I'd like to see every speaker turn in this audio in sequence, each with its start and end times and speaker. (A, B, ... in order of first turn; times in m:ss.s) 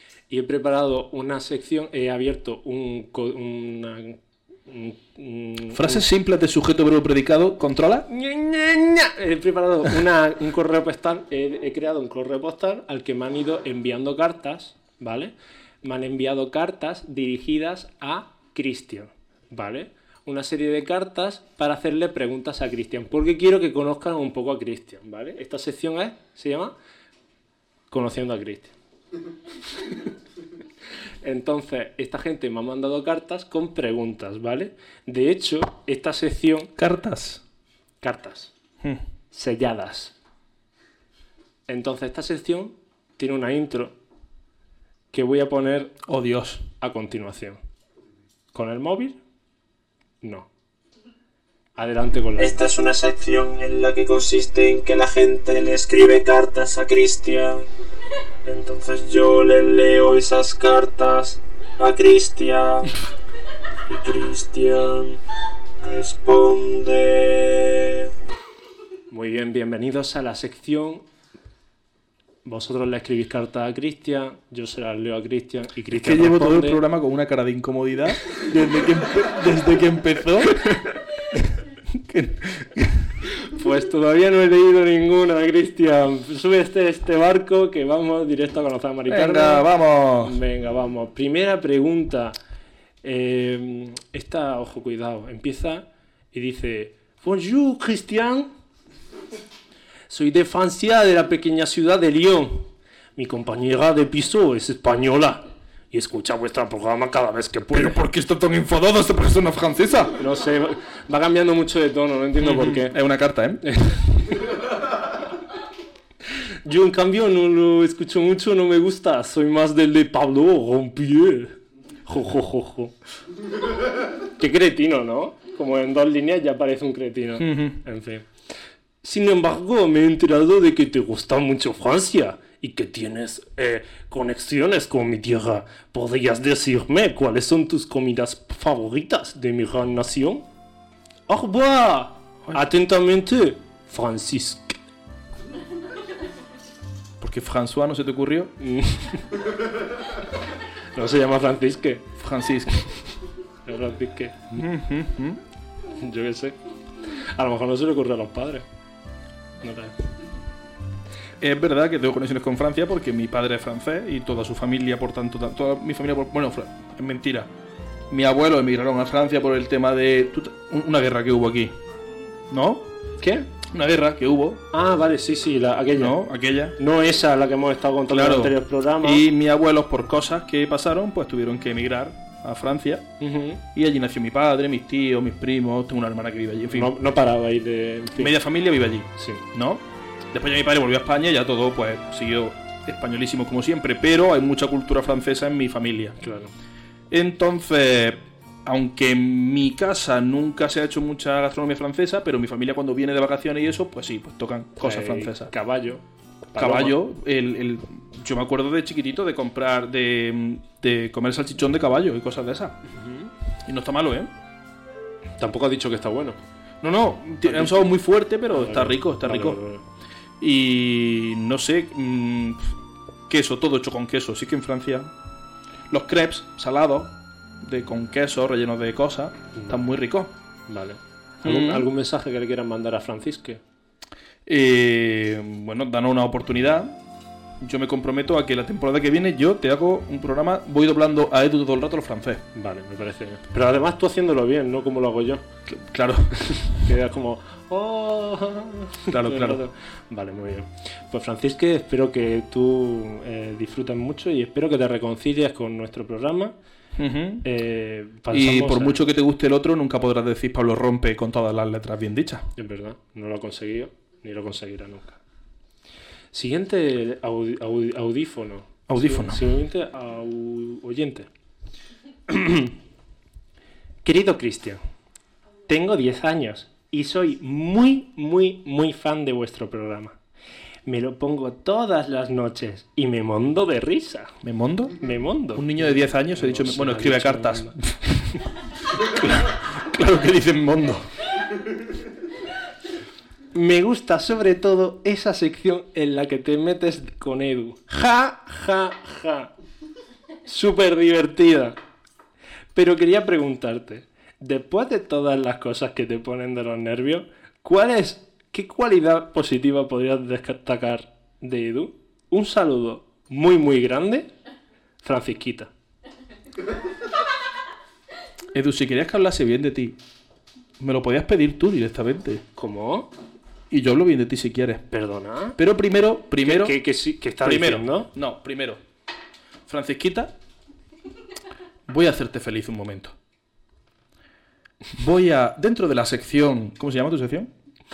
0:00.3-0:06.0 A
0:05.7-0:08.0 B
0:08.1-0:26.7 A
0:27.9-0:28.7 A
0:31.2-0:36.8 A
0:36.8-0:37.4 B
0:38.0-0:38.5 A
0:39.3-0:40.1 A
0:41.7-0:43.9 A
0:45.1-0:46.0 A
0:46.1-0:46.6 B
0:46.8-0:47.6 A
0:48.5-0:49.2 A
0:50.2-0:50.5 A
0:51.8-0:52.7 A
0:52.4-0:57.7 C
0:58.4-1:02.9 C
1:03.8-1:05.2 C
1:05.8-1:08.1 C
1:09.1-1:11.0 A
1:12.4-1:16.8 A
1:15.9-1:20.9 B
1:21.9-1:23.1 B
1:23.4-1:32.4 A
1:29.1-1:30.4 B
1:33.0-1:38.5 A
1:40.1-1:48.0 A
1:47.7-1:50.1 B
1:50.2-1:53.0 A
1:52.4-1:53.6 B
1:53.6-1:54.5 A
1:56.6-2:02.9 A
2:04.2-2:08.3 A
2:07.4-2:07.8 B
2:09.0-2:20.4 A
2:21.3-2:24.8 A
2:27.2-2:28.5 B
2:28.6-2:29.5 A
2:30.9-2:32.2 A
2:32.2-2:32.8 B
2:33.6-2:34.7 A
2:34.6-2:35.4 B
2:35.9-2:36.6 A
2:37.1-2:38.7 A
2:39.6-2:40.0 A
2:41.4-2:47.5 B
2:48.1-2:51.7 B
2:52.5-2:52.9 B
2:53.2-2:53.5 A
2:53.7-2:54.6 B
2:54.7-2:56.2 A
2:56.0-2:56.8 B
2:56.8-2:59.2 A
2:58.1-3:03.1 B
3:03.2-3:03.6 A
3:03.7-3:06.9 B
3:06.7-3:08.3 A
3:08.2-3:16.2 B
3:09.2-3:09.4 A
3:16.2-3:16.5 A
3:17.1-3:25.5 B
3:24.8-3:27.0 A
3:26.6-3:32.8 B
3:32.9-3:33.3 A
3:33.6-3:34.3 B
3:35.4-3:36.4 A
3:36.8-3:39.6 B
3:37.4-3:37.9 A
3:38.5-3:39.8 A
3:40.4-3:42.7 B
3:43.3-3:45.1 B
3:45.9-3:50.3 B
3:49.6-3:49.9 A
3:50.7-3:53.6 A
3:51.4-3:51.9 B
3:54.4-3:57.0 B
3:57.6-4:02.4 B
4:02.5-4:05.4 A
4:05.7-4:06.8 B
4:06.7-4:16.5 A
4:09.1-4:09.6 B
4:17.0-4:17.4 B
4:17.4-4:19.0 A
4:18.3-4:22.4 B
4:22.6-4:25.2 A
4:26.3-4:31.3 A
4:28.9-4:29.4 B
4:32.3-4:32.7 A
4:34.0-4:34.8 A
4:35.7-4:40.2 A
4:40.8-4:44.4 A
4:44.4-4:45.0 B
4:45.0-4:47.8 A
4:45.5-4:48.3 B
4:49.0-4:51.1 B
4:53.5-4:59.5 A
5:00.4-5:01.8 A
5:02.7-5:14.3 A
5:15.0-5:15.7 A
5:18.5-5:20.0 B
5:20.8-5:22.4 B
5:22.6-5:23.1 A
5:23.7-5:24.8 B
5:24.9-5:25.6 A
5:25.6-5:26.8 B
5:26.4-5:28.1 A
5:27.4-5:28.8 B
5:29.7-5:30.3 B
5:31.9-5:33.1 B
5:35.0-5:37.5 B